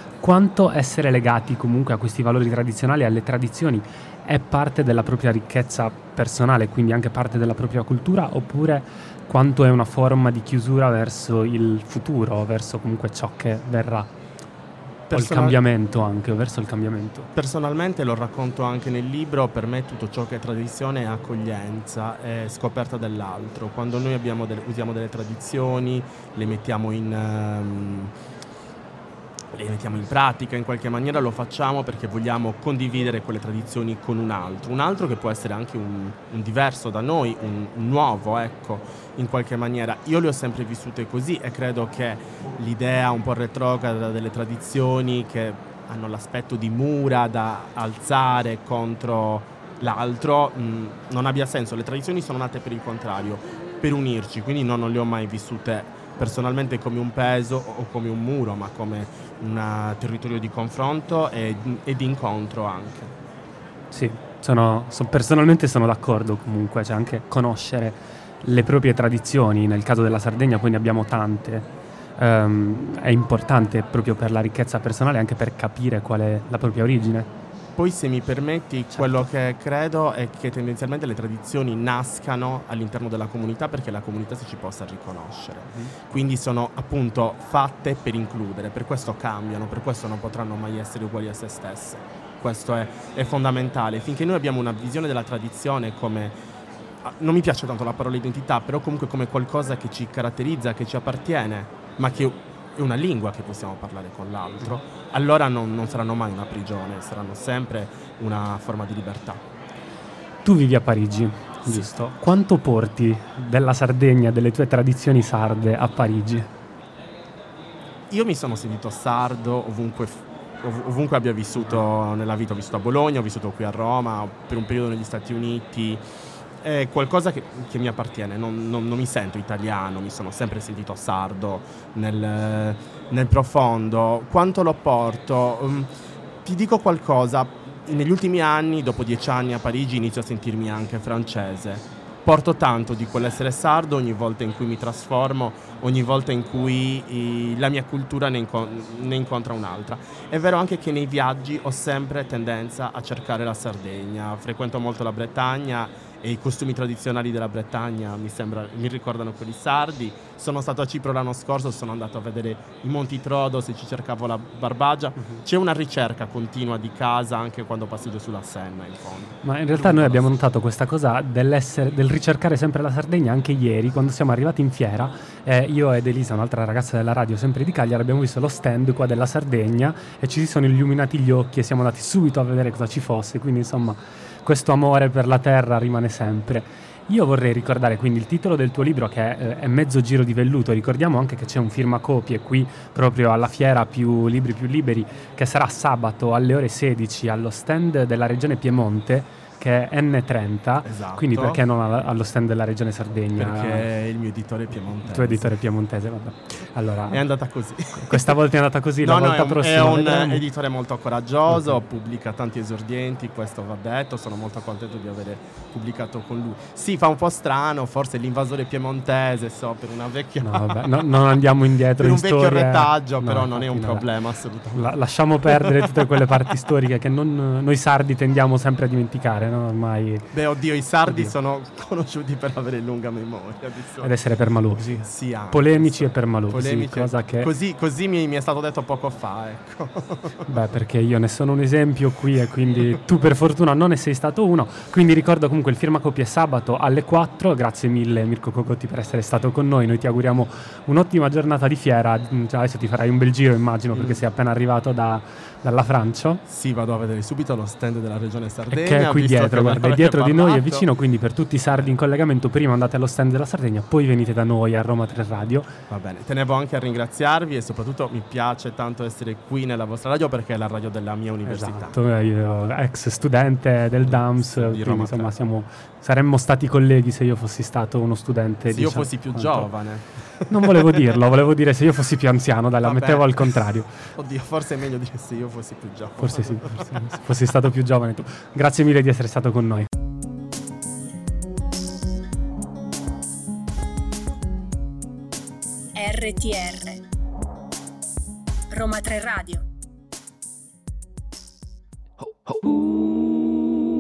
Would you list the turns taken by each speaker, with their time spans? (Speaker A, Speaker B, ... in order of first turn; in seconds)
Speaker A: 0.2-14.1, 15.1-17.3, 63.9-77.3, 78.9-79.3, 110.4-116.5, 169.4-203.9, 205.1-207.3, 207.9-210.4, 211.5-211.8, 220.4-224.1, 224.8-230.3, 231.1-231.3, 234.0-237.5, 240.5-256.4, 258.7-265.7, 271.4-279.7, 280.5-283.9, 286.2-289.9
Speaker B: 15.1-15.6, 17.4-28.1, 29.5-63.1, 77.8-96.4, 97.0-109.4, 118.1-126.0, 126.6-135.9, 136.4-170.3, 200.8-201.6, 203.4-205.5, 207.1-208.3, 209.0-220.9, 222.0-225.9, 230.3-234.2, 234.7-240.4, 253.9-254.2, 256.5-260.9, 265.9-272.0, 274.0-275.4, 278.7-281.2, 282.8-287.2
Speaker C: 295.9-297.1, 298.7-299.7